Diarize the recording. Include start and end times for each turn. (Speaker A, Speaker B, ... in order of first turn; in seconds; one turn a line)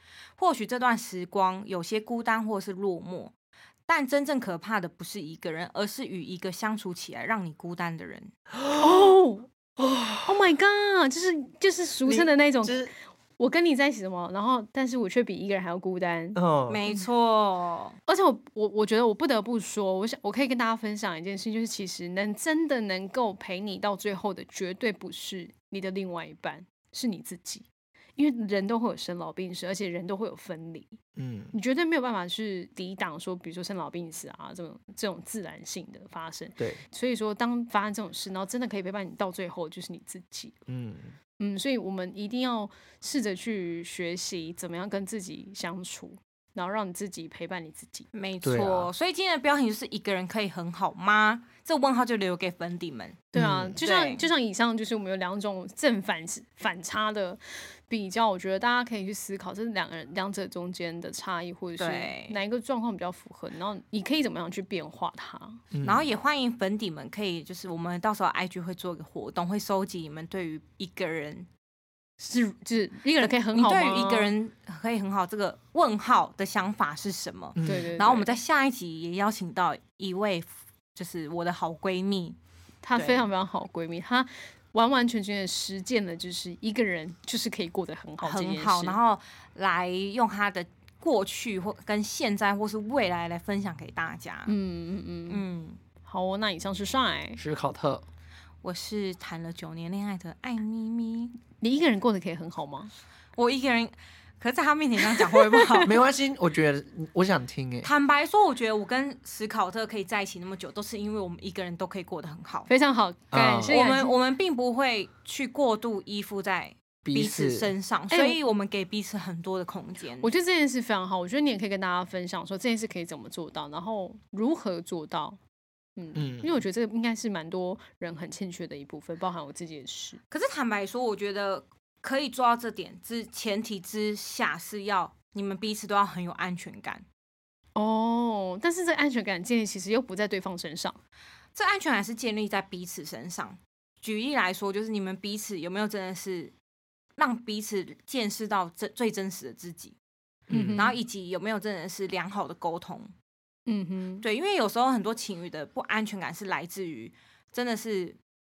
Speaker A: 0.4-3.3
Speaker A: 3.9-8.3
Speaker B: 8.5-9.1
Speaker C: 8.8-9.5
Speaker B: 9.8-10.3
Speaker C: 10.2-16.4
Speaker B: 12.0-12.9
Speaker B: 16.4-16.8
Speaker A: 16.7-18.0
Speaker C: 18.1-27.6
Speaker C: 28.2-31.0
Speaker B: 31.1-31.5
Speaker C: 31.5-40.5
Speaker B: 40.7-41.1
Speaker C: 41.4-48.1
Speaker A: 48.1-53.3
Speaker B: 48.4-48.9
Speaker C: 53.3-65.6
Speaker B: 53.4-53.8
Speaker A: 53.8-54.2
Speaker A: 61.8-62.4
Speaker B: 65.7-66.1
Speaker A: 65.8-71.5
Speaker C: 72.2-74.3
Speaker A: 73.2-82.4
Speaker B: 77.6-78.0
Speaker C: 77.6-78.4
Speaker C: 82.8-89.0
Speaker A: 82.9-83.2
Speaker A: 88.2-94.5
Speaker C: 94.5-95.4
Speaker A: 95.3-95.8
Speaker C: 96.0-97.4
Speaker B: 97.4-98.0
Speaker A: 98.6-101.4
Speaker C: 101.6-102.9
Speaker A: 103.4-106.0
Speaker C: 105.5-105.8
Speaker B: 105.8-107.9
Speaker A: 107.8-112.7
Speaker C: 112.7-114.2
Speaker B: 113.3-113.8
Speaker A: 113.7-120.3
Speaker B: 117.0-117.7
Speaker C: 118.1-118.4
Speaker C: 120.2-125.4
Speaker C: 126.0-130.2
Speaker B: 126.2-126.6
Speaker A: 130.3-137.0
Speaker C: 137.8-141.0
Speaker A: 141.5-146.5
Speaker A: 147.2-149.9
Speaker B: 150.5-150.8
Speaker C: 150.5-151.0
Speaker A: 150.8-153.1
Speaker C: 153.7-154.2
Speaker A: 154.2-158.2